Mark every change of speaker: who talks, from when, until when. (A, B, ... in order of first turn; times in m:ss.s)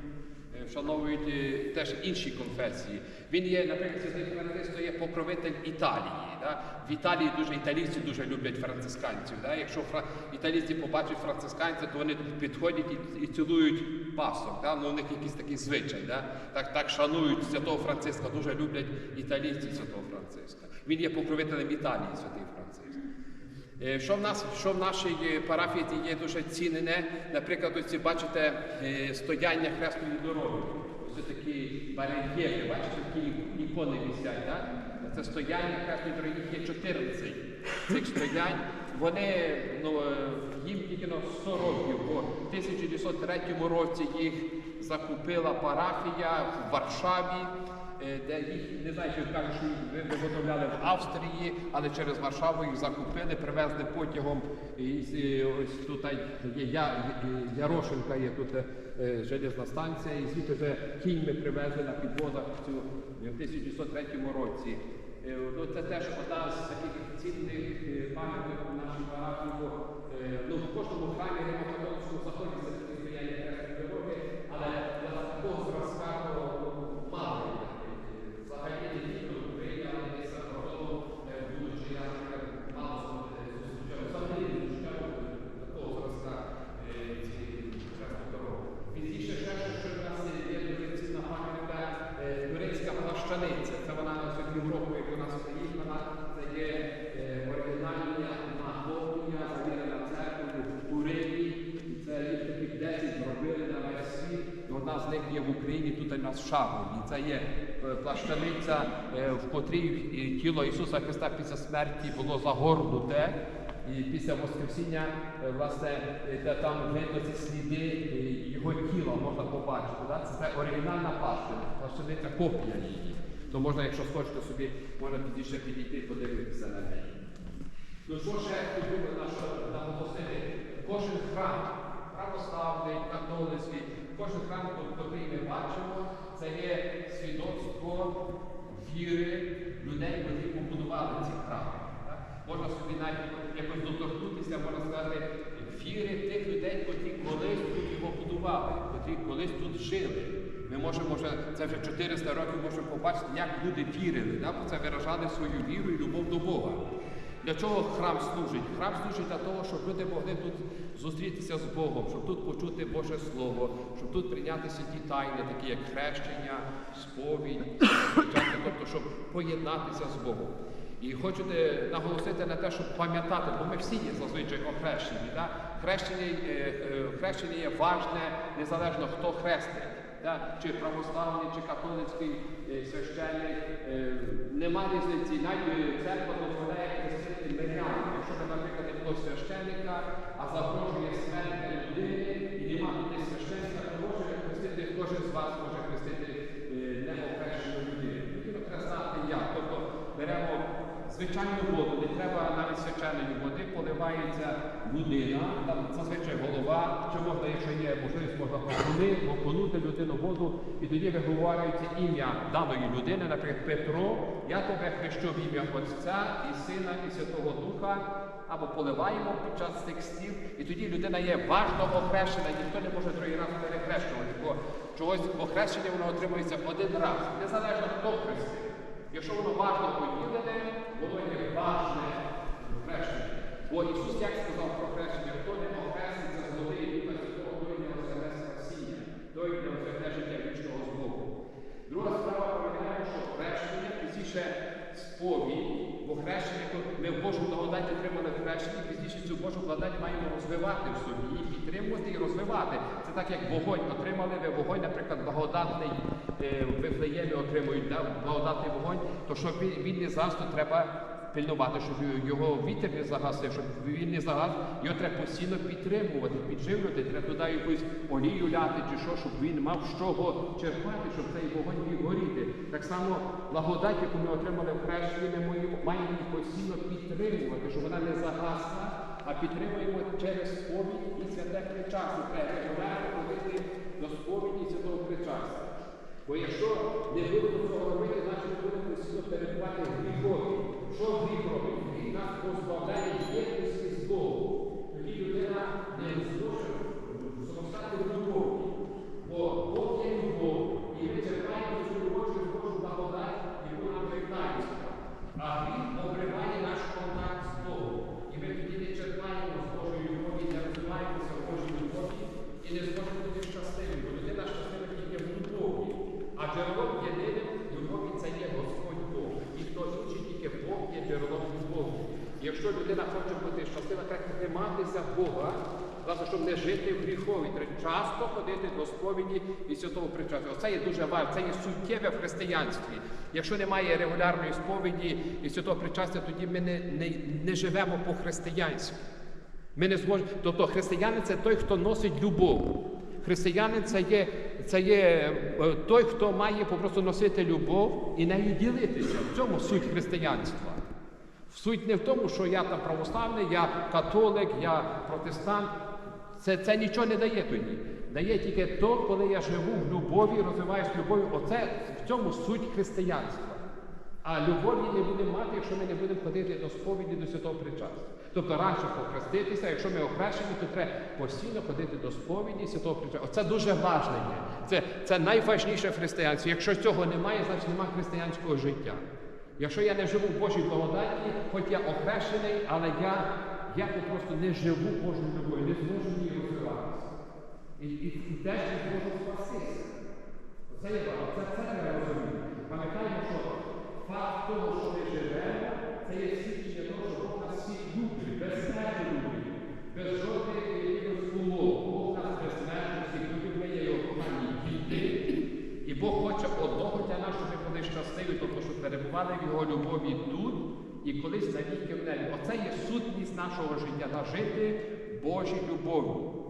0:00.5-0:23.0 A
0:23.8-2:07.2 A
2:08.0-2:36.8 A
2:37.4-4:01.3 A
4:01.9-4:45.7 A
4:46.2-5:39.0 A
5:39.7-5:50.8 A
5:51.5-5:55.7 A
5:56.3-6:03.6 A
6:04.2-6:19.0 A
6:19.6-6:27.1 A
6:27.8-6:29.9 A
6:30.7-6:45.3 A
6:45.8-6:56.3 A